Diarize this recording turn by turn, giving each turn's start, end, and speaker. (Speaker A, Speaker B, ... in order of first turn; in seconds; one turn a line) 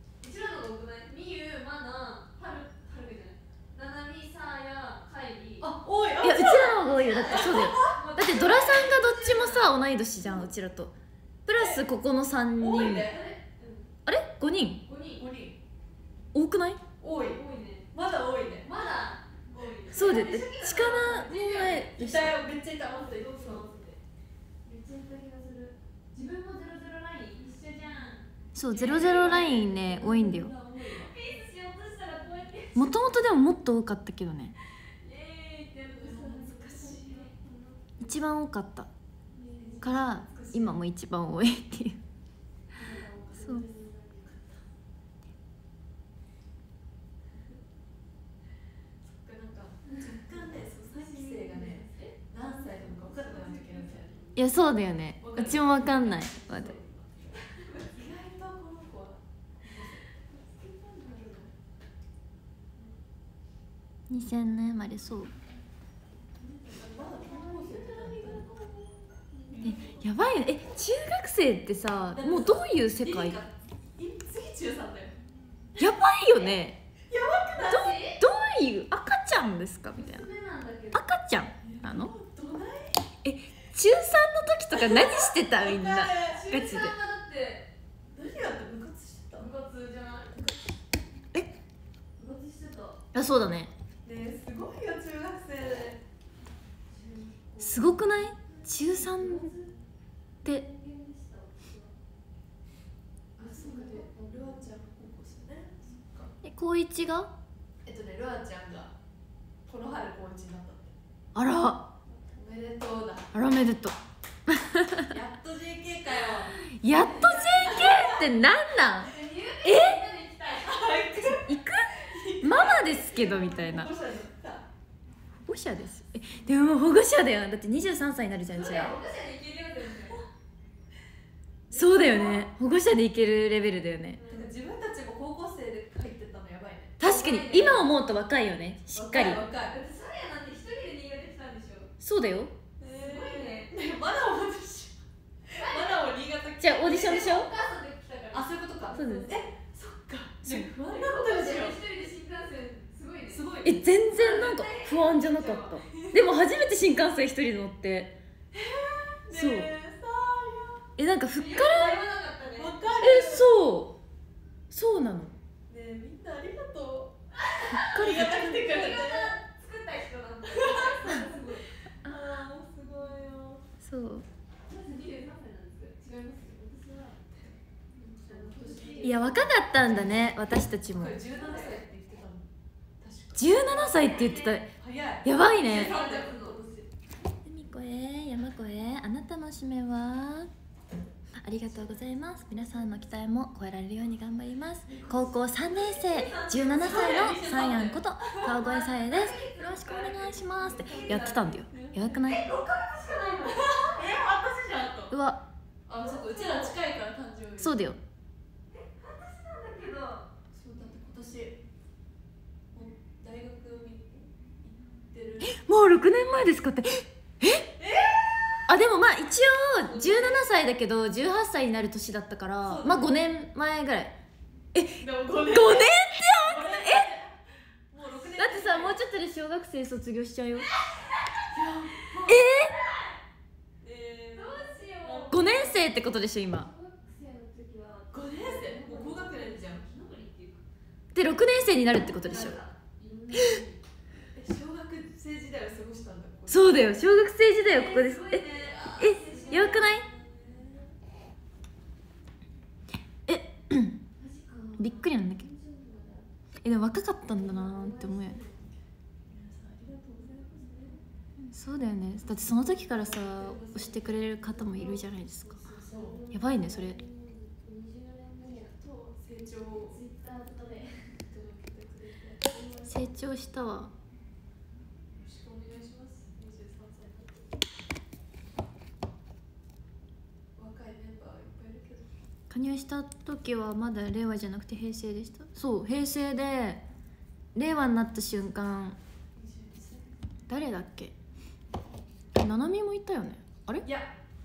Speaker A: 0.2-5.7
Speaker B: 5.6-8.0
Speaker C: 6.2-10.9
Speaker A: 6.7-9.8
Speaker C: 11.5-13.1
Speaker B: 11.5-11.9
Speaker B: 12.6-13.2
Speaker A: 12.9-13.9
Speaker C: 14.1-14.8
Speaker A: 14.8-15.3
Speaker B: 15.2-15.6
Speaker C: 16.3-16.8
Speaker B: 17.0-18.7
Speaker A: 17.2-17.9
Speaker A: 18.6-22.3
Speaker B: 19.5-20.3
Speaker C: 19.9-22.4
Speaker B: 22.0-23.7
Speaker A: 23.1-24.0
Speaker A: 24.6-30.0
Speaker C: 28.6-30.5
Speaker B: 28.8-31.1
Speaker A: 30.8-32.9
Speaker C: 32.8-34.6
Speaker A: 34.8-38.1
Speaker B: 35.9-37.3
Speaker C: 38.0-38.9
Speaker A: 39.3-40.4
Speaker B: 39.6-40.8
Speaker C: 39.8-42.0
Speaker A: 42.7-44.6
Speaker B: 43.4-43.7
Speaker B: 44.3-44.6
Speaker B: 49.0-54.3
Speaker A: 50.3-54.4
Speaker C: 54.4-56.8
Speaker B: 55.2-57.3
Speaker A: 57.3-58.0
Speaker B: 57.9-60.0
Speaker A: 59.8-61.5
Speaker C: 64.1-65.3
Speaker A: 66.4-70.0
Speaker B: 66.8-68.5
Speaker B: 69.5-69.9
Speaker C: 69.6-73.4
Speaker B: 72.1-75.2
Speaker C: 75.8-76.8
Speaker B: 77.1-77.9
Speaker A: 77.5-78.2
Speaker C: 77.7-80.3
Speaker A: 79.9-81.0
Speaker C: 80.9-82.1
Speaker B: 81.6-83.0
Speaker C: 83.2-86.9
Speaker B: 84.7-86.9
Speaker A: 86.5-87.7
Speaker B: 88.1-89.5
Speaker A: 89.4-90.6
Speaker A: 92.2-93.0
Speaker C: 93.1-93.7
Speaker B: 94.0-96.0
Speaker A: 96.9-99.8
Speaker C: 97.6-99.5
Speaker A: 100.4-102.0
Speaker A: 103.4-104.7
Speaker B: 103.4-106.3
Speaker C: 106.4-107.3
Speaker B: 107.8-108.9
Speaker B: 109.7-110.9
Speaker C: 111.3-111.9
Speaker A: 112.1-112.7
Speaker B: 112.4-113.3
Speaker C: 113.3-114.0
Speaker C: 114.5-115.1
Speaker B: 115.1-116.5
Speaker C: 116.7-120.0
Speaker A: 117.0-118.1
Speaker B: 117.7-118.1
Speaker A: 119.0-120.9
Speaker B: 120.5-124.7
Speaker C: 121.2-123.9
Speaker A: 123.0-124.0
Speaker C: 125.5-129.0
Speaker A: 128.5-130.3
Speaker B: 131.7-132.5
Speaker C: 131.7-134.2
Speaker A: 134.2-134.6
Speaker B: 134.3-137.0
Speaker C: 137.0-139.4
Speaker A: 137.0-137.9
Speaker B: 138.9-139.8
Speaker A: 139.7-141.9
Speaker C: 142.0-142.5
Speaker B: 142.8-147.2
Speaker A: 142.9-143.7
Speaker A: 145.5-145.9
Speaker C: 146.6-147.5
Speaker A: 146.8-149.4
Speaker B: 148.3-151.8
Speaker C: 148.9-149.3
Speaker C: 150.4-150.7
Speaker A: 150.8-153.5
Speaker B: 153.3-153.8
Speaker C: 153.6-158.2
Speaker A: 154.1-155.8
Speaker B: 155.8-156.3
Speaker B: 158.5-160.9
Speaker C: 159.3-159.7
Speaker C: 161.0-162.1
Speaker A: 161.3-162.9
Speaker B: 162.6-163.5
Speaker C: 162.9-164.0
Speaker C: 164.7-165.4
Speaker B: 165.7-167.2
Speaker A: 167.4-171.7
Speaker B: 167.7-169.4
Speaker C: 167.7-168.8
Speaker B: 170.5-173.6
Speaker C: 173.8-174.3
Speaker A: 174.7-177.2
Speaker B: 176.0-176.6
Speaker B: 177.3-179.4
Speaker A: 178.1-180.2
Speaker C: 179.0-181.2
Speaker B: 179.9-180.3
Speaker B: 180.9-182.5
Speaker A: 181.3-181.8
Speaker B: 183.0-183.5
Speaker C: 183.3-184.7
Speaker A: 183.6-184.7
Speaker B: 184.8-186.9
Speaker C: 185.2-185.9
Speaker A: 185.6-186.8
Speaker C: 187.4-190.5
Speaker C: 191.4-202.5
Speaker A: 192.1-193.1
Speaker B: 194.9-195.3
Speaker A: 195.6-197.8
Speaker B: 196.7-198.6
Speaker A: 198.4-204.2
Speaker B: 200.7-202.3
Speaker B: 203.4-205.1
Speaker C: 205.1-205.4
Speaker B: 205.9-207.8
Speaker A: 205.9-206.8
Speaker C: 207.6-208.0
Speaker A: 208.7-210.3
Speaker B: 210.5-211.6
Speaker B: 212.7-215.7
Speaker C: 215.4-217.7
Speaker B: 217.8-218.7
Speaker C: 218.7-224.2
Speaker B: 219.9-220.5
Speaker B: 222.6-223.2
Speaker C: 224.7-227.2
Speaker B: 225.0-227.3
Speaker B: 227.9-229.0
Speaker C: 228.4-230.7
Speaker A: 230.6-231.5
Speaker B: 231.5-232.4
Speaker A: 232.1-233.2
Speaker C: 232.3-232.8
Speaker B: 233.8-235.4
Speaker A: 234.3-235.8
Speaker C: 235.3-236.7
Speaker A: 236.5-240.7
Speaker B: 238.1-239.8
Speaker C: 241.1-242.6
Speaker A: 241.9-243.8
Speaker C: 243.3-243.6
Speaker B: 244.3-247.0
Speaker C: 246.5-248.5
Speaker A: 247.6-250.0
Speaker B: 249.0-250.9
Speaker C: 249.0-250.1
Speaker C: 253.3-254.0
Speaker A: 254.2-256.3
Speaker C: 254.8-255.5
Speaker C: 256.6-258.4
Speaker A: 257.2-258.7
Speaker B: 259.3-260.8
Speaker A: 260.2-261.0
Speaker C: 261.4-265.6
Speaker B: 262.8-264.9
Speaker A: 264.5-264.9
Speaker B: 265.5-266.2
Speaker A: 265.8-268.7
Speaker C: 266.3-267.0
Speaker B: 268.5-270.0
Speaker A: 269.9-271.2
Speaker B: 271.2-272.5
Speaker A: 272.5-273.2
Speaker C: 272.9-273.9
Speaker B: 275.1-277.5
Speaker B: 280.6-282.1
Speaker C: 282.5-286.8
Speaker C: 287.6-289.0
Speaker B: 289.4-290.3
Speaker C: 290.5-291.1
Speaker C: 292.4-293.9
Speaker B: 293.8-294.1